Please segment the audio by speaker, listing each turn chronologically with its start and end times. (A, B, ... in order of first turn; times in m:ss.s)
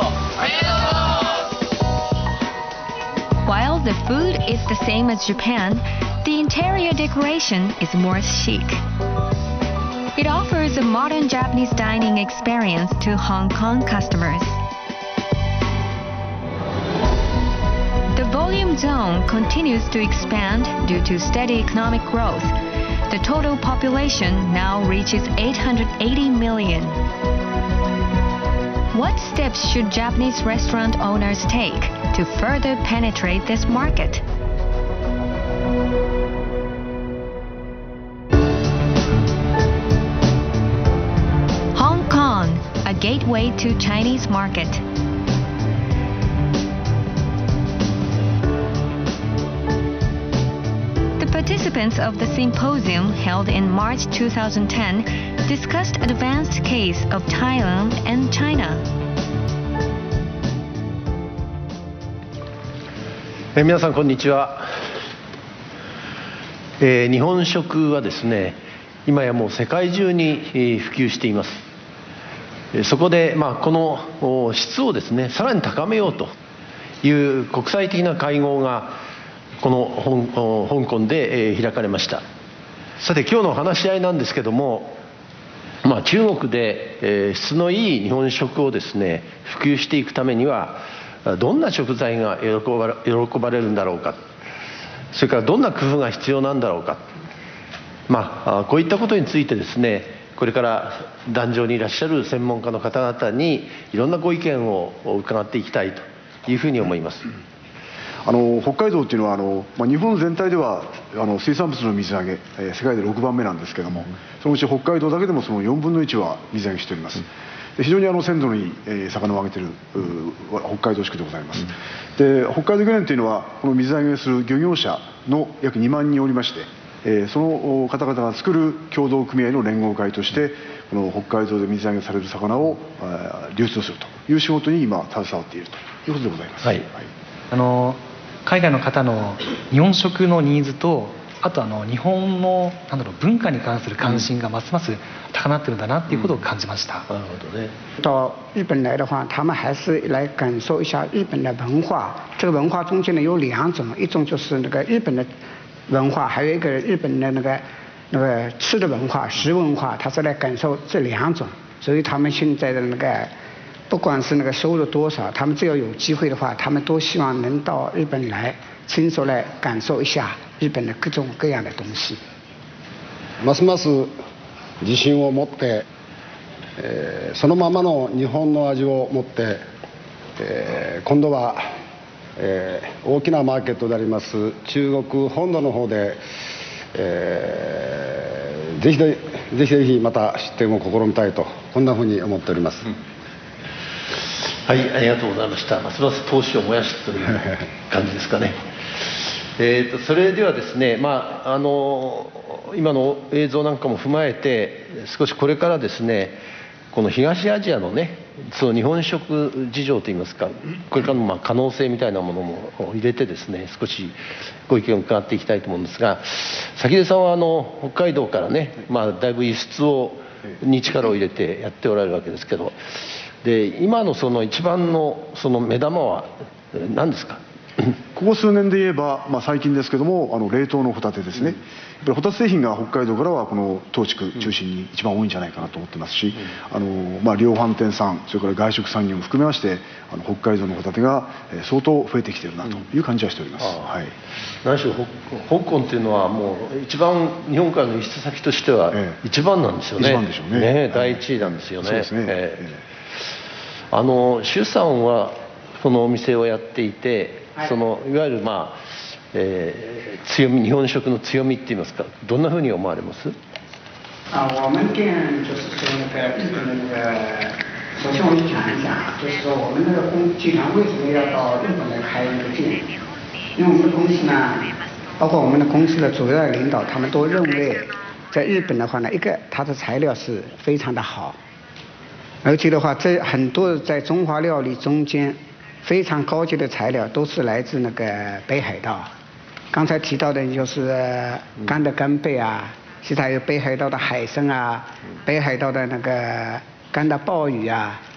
0:03.4-0:08.8 A
0:10.2-0:14.6 A
0:18.1-0:22.5 A
0:23.1-0:27.0 A
0:28.9-0:34.2 A
0:41.7-0:44.8 A
0:51.2-0:58.8 A
1:03.5-1:04.9 B
1:06.8-1:11.6 B
1:12.7-1:16.3 B
1:17.0-1:19.0 B
1:19.6-1:22.2 B
1:23.0-1:25.0 B
1:25.8-1:34.2 B
1:35.1-1:37.0 B
1:38.1-1:47.2 B
1:48.2-2:17.1 C
2:17.5-2:27.1 D
2:27.1-2:27.7 B
2:28.0-2:35.3 E
2:35.9-2:43.3 E
2:43.9-2:52.2 E
2:53.4-2:54.1 F
2:54.8-2:55.8 F
2:56.8-2:59.6 F
3:00.4-3:01.6 F
3:02.4-3:06.2 F
3:06.9-3:12.9 F
3:14.7-3:18.6 B
3:19.6-3:26.4 B
3:26.9-3:34.2 B
3:34.7-3:42.8 B
3:43.4-3:47.9 B
3:48.1-4:04.1 C
4:04.6-4:12.6 B
4:08.9-4:09.2 C
4:10.0-4:12.8 C
4:13.9-4:23.4 B
4:24.3-4:32.9 E
4:33.6-4:41.4 E
4:42.4-4:49.1 E
4:49.7-4:58.0 E